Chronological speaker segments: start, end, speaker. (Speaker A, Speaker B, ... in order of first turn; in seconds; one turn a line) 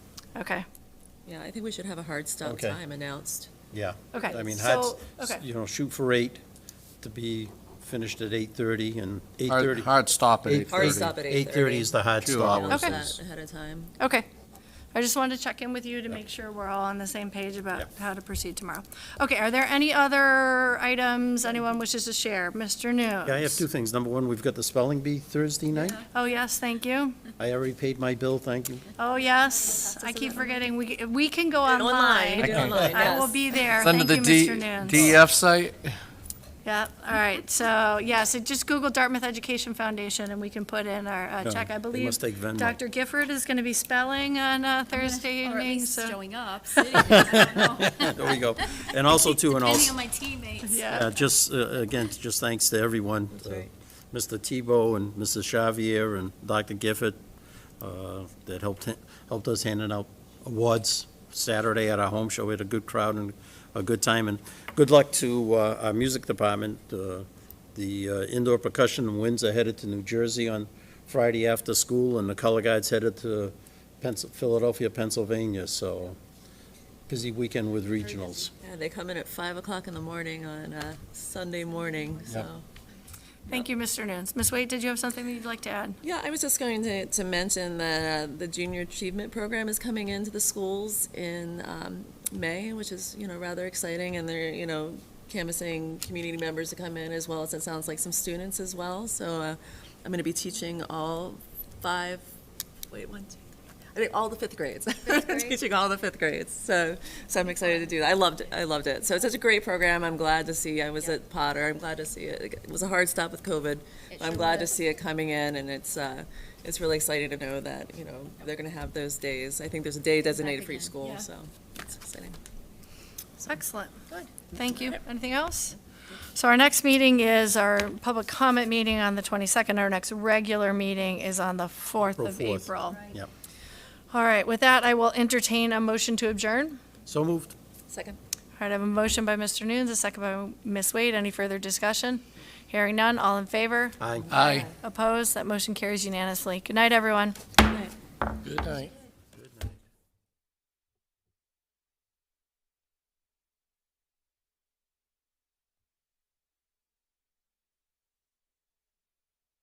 Speaker A: 0.3-0.7
Speaker B: 1.3-3.5
Speaker C: 2.4-2.8
Speaker C: 3.7-6.4
Speaker A: 4.1-5.4
Speaker C: 7.0-9.9
Speaker D: 9.5-11.2
Speaker C: 10.4-13.1
Speaker B: 10.7-13.9
Speaker D: 12.2-13.1
Speaker A: 14.0-14.3
Speaker A: 14.9-23.6
Speaker C: 23.2-26.0
Speaker A: 26.0-27.2
Speaker C: 27.4-28.9
Speaker A: 29.0-35.0
Speaker E: 29.6-30.6
Speaker B: 31.6-33.7
Speaker D: 32.4-32.8
Speaker D: 33.8-35.9
Speaker C: 34.9-35.2
Speaker A: 36.6-47.1
Speaker C: 41.4-42.8
Speaker E: 45.0-50.9
Speaker C: 47.0-50.0
Speaker A: 50.6-51.1
Speaker C: 50.9-57.2
Speaker B: 53.3-53.7
Speaker C: 57.8-76.2
Speaker C: 77.1-78.5
Speaker B: 78.6-82.7
Speaker A: 83.5-86.0
Speaker B: 86.0-102.3
Speaker B: 102.9-103.4
Speaker B: 103.9-122.4
Speaker E: 105.2-105.5
Speaker E: 114.2-114.7
Speaker E: 120.4-121.2
Speaker A: 123.5-124.0
Speaker B: 124.1-125.0
Speaker A: 124.5-133.0
Speaker C: 132.0-133.3
Speaker A: 134.1-136.8
Speaker C: 137.1-137.6
Speaker B: 137.9-138.2
Speaker A: 138.6-144.0
Speaker C: 144.0-144.3
Speaker D: 144.3-144.7
Speaker B: 144.3-144.7
Speaker A: 144.8-147.4
Speaker B: 147.7-147.9
Speaker D: 148.4-148.9